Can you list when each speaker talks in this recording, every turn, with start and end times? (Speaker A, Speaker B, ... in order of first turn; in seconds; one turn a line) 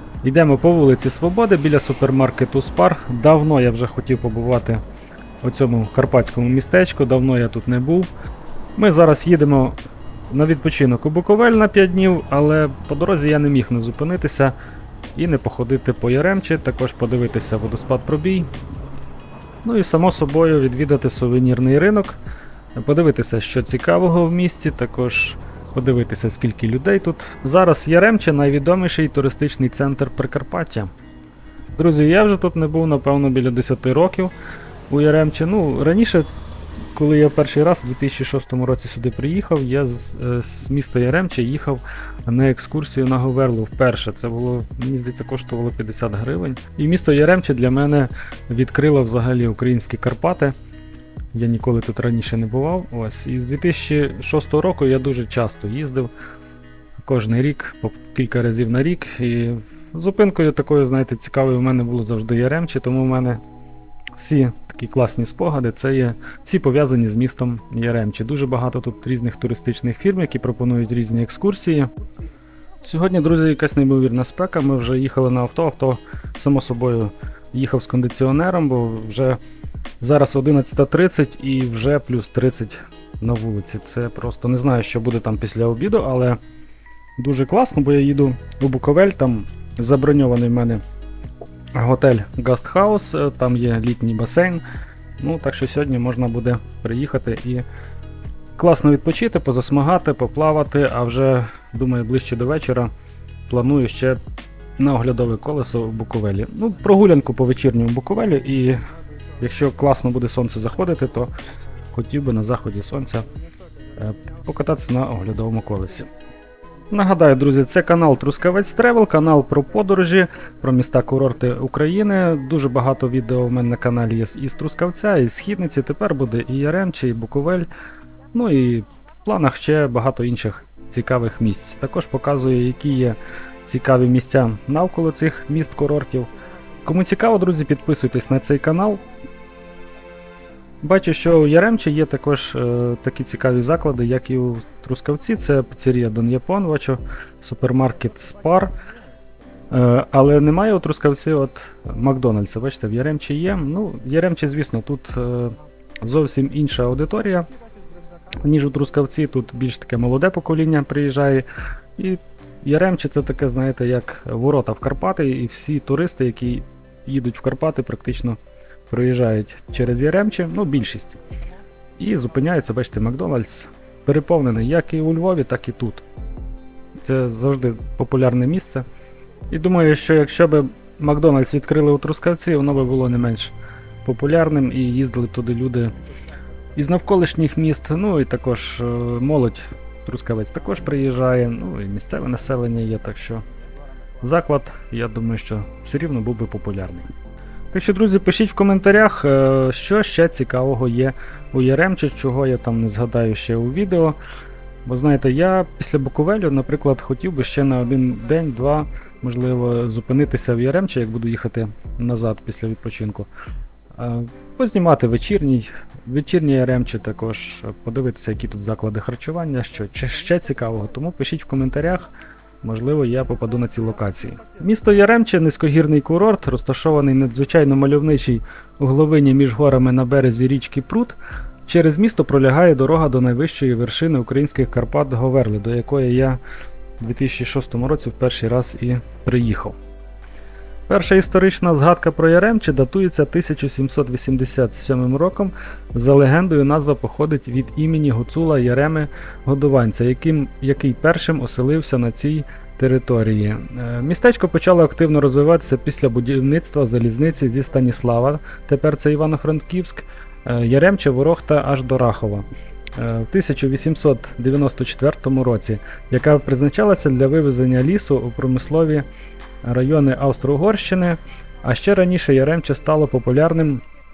Speaker A: 0.2-4.8
Speaker A: 5.4-8.1
Speaker A: 8.8-9.8
Speaker A: 10.3-14.6
Speaker A: 15.2-18.5
Speaker A: 19.6-22.2
Speaker A: 22.8-30.9
Speaker A: 31.8-34.3
Speaker A: 34.9-36.3
Speaker A: 37.0-50.5
Speaker A: 51.3-56.1
Speaker A: 57.0-63.4
Speaker A: 64.2-71.9
Speaker A: 72.8-79.4
Speaker A: 80.0-86.4
Speaker A: 87.2-90.8
Speaker A: 91.8-94.6
Speaker A: 95.2-97.7
Speaker A: 98.6-102.9
Speaker A: 103.5-104.2
Speaker A: 104.8-108.8
Speaker A: 109.4-111.3
Speaker A: 111.9-113.2
Speaker A: 114.0-116.1
Speaker A: 116.9-127.7
Speaker A: 128.3-136.3
Speaker A: 136.8-139.0
Speaker A: 140.8-148.7
Speaker A: 149.7-157.5
Speaker A: 158.4-161.5
Speaker A: 162.0-168.4
Speaker A: 168.9-171.2
Speaker A: 172.0-176.1
Speaker A: 177.0-178.9
Speaker A: 179.5-183.5
Speaker A: 184.1-185.9
Speaker A: 186.8-193.4
Speaker A: 194.2-197.1
Speaker A: 197.7-204.2
Speaker A: 204.9-213.3
Speaker A: 214.0-222.1
Speaker A: 222.6-236.4
Speaker A: 237.0-239.8
Speaker A: 240.9-262.5
Speaker A: 263.0-269.1
Speaker A: 269.6-273.8